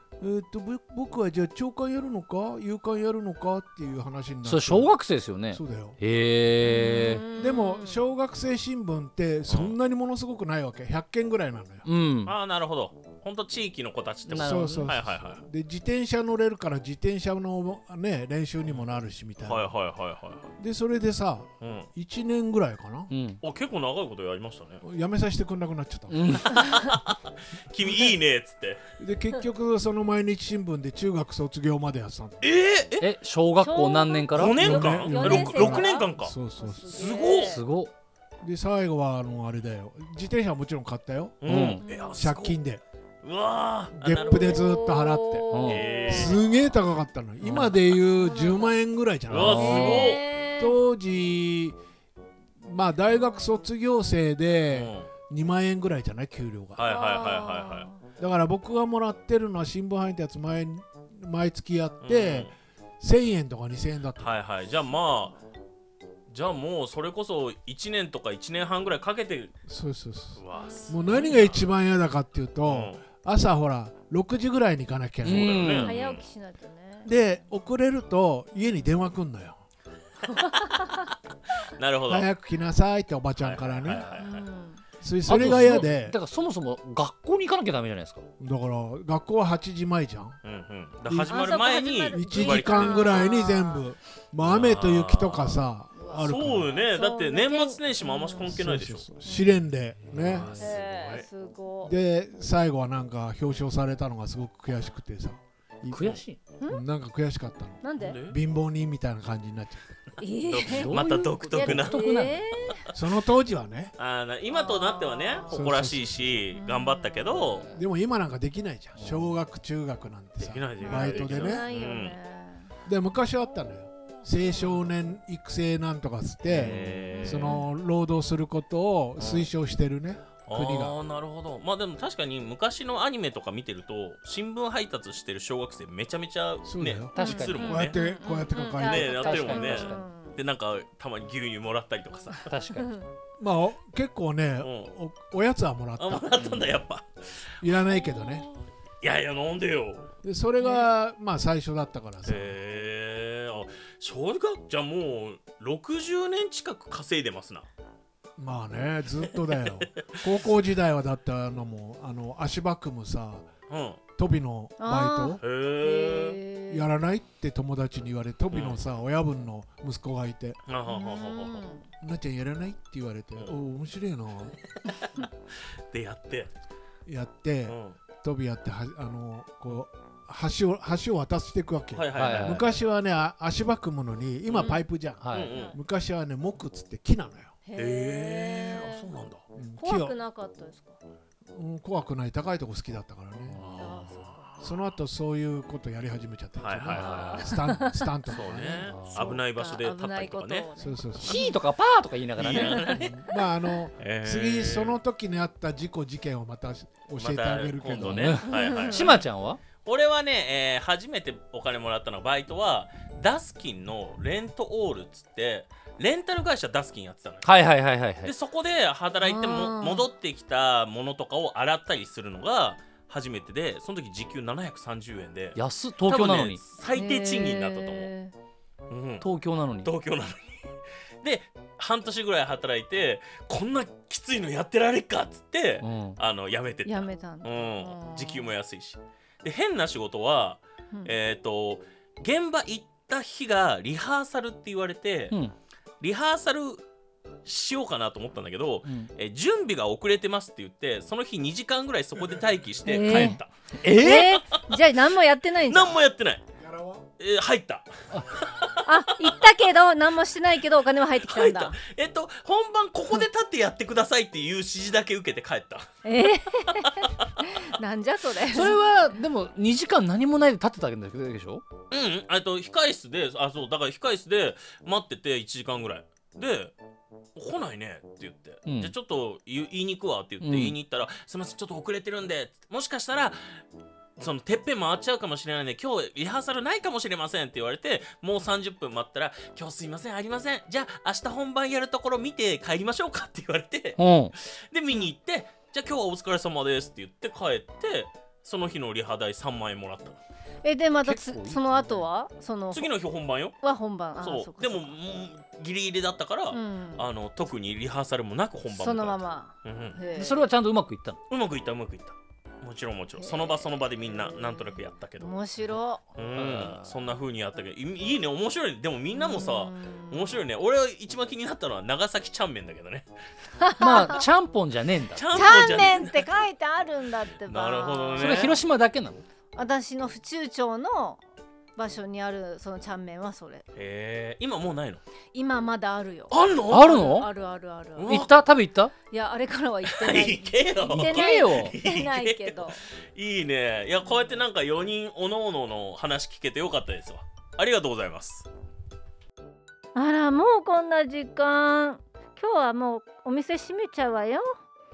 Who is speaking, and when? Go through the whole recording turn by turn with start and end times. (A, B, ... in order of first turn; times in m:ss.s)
0:00.2-0:04.9 A
0:04.4-0:07.2 B
0:05.5-0:06.0 A
0:06.6-0:08.0 C
0:07.3-0:11.9 A
0:09.5-0:09.8 D
0:11.8-0:12.3 B
0:12.2-0:15.4 D
0:14.3-0:14.9 B
0:14.3-0:19.7 A
0:19.4-0:20.5 D
0:20.6-0:23.1 A
0:21.6-0:21.9 D
0:23.1-0:23.4 B
0:23.4-0:24.8 D
0:24.8-0:26.6 A
0:26.1-0:26.5 B
0:26.5-0:28.8 D
0:29.0-0:32.5 A
0:32.4-0:33.1 D
0:33.0-0:34.7 B
0:33.6-0:37.6 C
0:34.3-0:36.4 D
0:34.4-0:37.0 A
0:36.9-0:37.6 D
0:37.3-0:37.9 B
0:38.4-0:41.6 A
0:41.4-0:42.6 D
0:41.4-0:41.8 B
0:41.8-0:42.2 C
0:42.2-0:42.8 A
0:43.2-0:44.7 D
0:43.9-0:51.8 A
0:44.3-0:46.7 C
0:45.5-0:45.9 B
0:45.6-0:46.4 D
0:47.4-0:47.7 B
0:48.1-0:48.8 C
0:49.3-0:50.2 D
0:49.3-0:50.0 B
0:49.6-0:50.8 C
0:52.6-0:56.9 A
0:54.7-0:55.1 D
0:56.8-0:57.9 D
0:56.8-0:58.0 C
0:58.2-1:04.3 A
1:02.0-1:02.5 D
1:04.2-1:05.4 D
1:06.3-1:09.5 D
1:09.7-1:15.8 A
1:10.4-1:11.7 D
1:10.6-1:10.9 C
1:12.6-1:13.0 D
1:15.2-1:15.9 B
1:15.2-1:16.2 D
1:15.8-1:17.4 C
1:17.0-1:19.6 A
1:20.3-1:20.9 C
1:21.7-1:22.3 D
1:22.1-1:24.0 A
1:23.4-1:24.5 D
1:23.9-1:24.8 C
1:25.0-1:26.2 A
1:25.2-1:28.2 B
1:28.4-1:30.4 A
1:30.4-1:33.3 D
1:31.0-1:31.5 A
1:31.3-1:33.8 C
1:32.1-1:36.8 A
1:34.4-1:35.6 D
1:36.2-1:39.1 D
1:36.8-1:38.6 C
1:38.4-1:40.7 A
1:39.2-1:39.6 C
1:40.1-1:41.3 D
1:40.2-1:40.5 B
1:40.6-1:41.9 C
1:41.8-1:49.9 A
1:45.9-1:46.4 B
1:47.8-1:48.2 C
1:48.0-1:48.4 D
1:50.2-1:51.0 C
1:50.4-1:52.1 D
1:50.6-1:52.5 B
1:51.5-1:52.9 C
1:52.9-1:54.0 A
1:54.0-1:57.7 D
1:54.5-1:55.6 C
1:55.5-1:56.4 A
1:56.5-1:57.4 C
1:57.3-1:57.8 B
1:57.7-2:01.6 A
1:59.0-1:59.3 B
2:00.4-2:02.2 D
2:00.8-2:02.7 C
2:02.8-2:11.0 A
2:04.4-2:04.9 C
2:06.4-2:07.6 D
2:06.6-2:07.4 B
2:07.1-2:07.7 C
2:09.2-2:09.5 D
2:10.4-2:18.0 D
2:16.6-2:19.1 A
2:17.1-2:20.4 C
2:17.2-2:17.7 B
2:18.8-2:22.5 D
2:19.1-2:20.0 B
2:22.4-2:23.0 B
2:23.4-2:26.4 A
2:24.6-2:24.9 D
2:26.0-2:27.8 D
2:26.4-2:26.8 B
2:27.6-2:28.5 A
2:29.0-2:30.1 D
2:30.2-2:32.6 A
2:32.2-2:37.7 D
2:38.4-2:43.5 A
2:39.5-2:40.0 D
2:43.7-2:44.0 D
2:44.2-2:45.4 A
2:44.8-2:46.8 C
2:45.4-2:46.4 D
2:46.7-2:50.6 A
2:48.5-2:48.8 D
2:50.7-2:51.6 D
2:50.8-2:51.9 C
2:52.0-2:54.6 A
2:54.8-2:55.2 D
2:55.9-2:56.5 D
2:57.1-3:07.5 A
2:57.6-2:58.0 D
3:01.9-3:02.7 D
3:02.1-3:02.7 B
3:04.5-3:04.8 D
3:04.5-3:04.8 C
3:05.2-3:05.5 B
3:05.3-3:05.8 D
3:05.5-3:05.8 C
3:07.6-3:09.1 C
3:07.7-3:09.4 D
3:09.5-3:10.2 A
3:09.8-3:11.0 C
3:11.5-3:13.7 A
3:13.5-3:13.8 B
3:13.6-3:14.9 D
3:13.8-3:14.5 C
3:14.6-3:19.1 A
3:16.6-3:17.4 D
3:16.9-3:17.5 B
3:17.1-3:18.0 C
3:18.3-3:20.7 D
3:18.5-3:19.4 B
3:19.1-3:21.6 C
3:20.8-3:21.4 A
3:21.2-3:22.9 B
3:22.4-3:25.0 D
3:22.8-3:28.4 A
3:27.2-3:29.2 D
3:27.9-3:29.6 B
3:28.5-3:29.2 C
3:29.8-3:37.5 D
3:37.4-3:38.3 B
3:38.2-3:48.1 D
3:39.2-3:40.1 C
3:45.5-3:46.6 B
3:46.8-3:48.3 C
3:48.9-3:49.3 D
3:49.2-3:49.9 B
3:49.8-4:05.4 D
3:55.8-3:56.2 B
3:56.8-3:58.5 C
4:06.0-4:06.8 D
4:07.4-4:14.9 D
4:08.8-4:09.1 B
4:12.8-4:16.0 C
4:13.0-4:14.3 B
4:15.6-4:16.4 D
4:16.6-4:17.0 A
4:17.2-4:18.9 D
4:18.8-4:21.8 C
4:21.2-4:25.9 D
4:26.0-4:28.8 C
4:28.5-4:31.6 B
4:31.9-4:36.7 D
4:37.4-4:43.6 D
4:38.6-4:38.9 B
4:40.4-4:40.8 B
4:44.2-5:00.2 D
4:54.0-4:54.3 B
5:00.6-5:02.9 C
5:01.0-5:02.0 B
5:02.7-5:03.6 D
5:03.6-5:05.0 C
5:04.2-5:10.0 D
5:06.5-5:07.1 C
5:08.7-5:10.5 C
5:10.1-5:11.2 B
5:11.3-5:15.3 D
5:13.2-5:16.0 C
5:16.1-5:23.1 D
5:16.3-5:17.0 B
5:19.1-5:20.4 C
5:23.6-5:24.2 C
5:23.8-5:25.3 B
5:25.1-5:26.2 D
5:25.3-5:28.5 C
5:27.3-5:28.6 D
5:28.1-5:29.2 B
5:29.5-5:31.2 C
5:31.8-5:33.6 C
5:33.8-5:35.0 D
5:35.3-5:38.2 C
5:36.3-5:37.1 D
5:36.7-5:37.3 B
5:38.0-5:38.4 D
5:38.0-5:38.9 B
5:39.1-5:42.8 C
5:39.8-5:48.5 D
5:40.8-5:41.8 B
5:49.9-5:54.5 C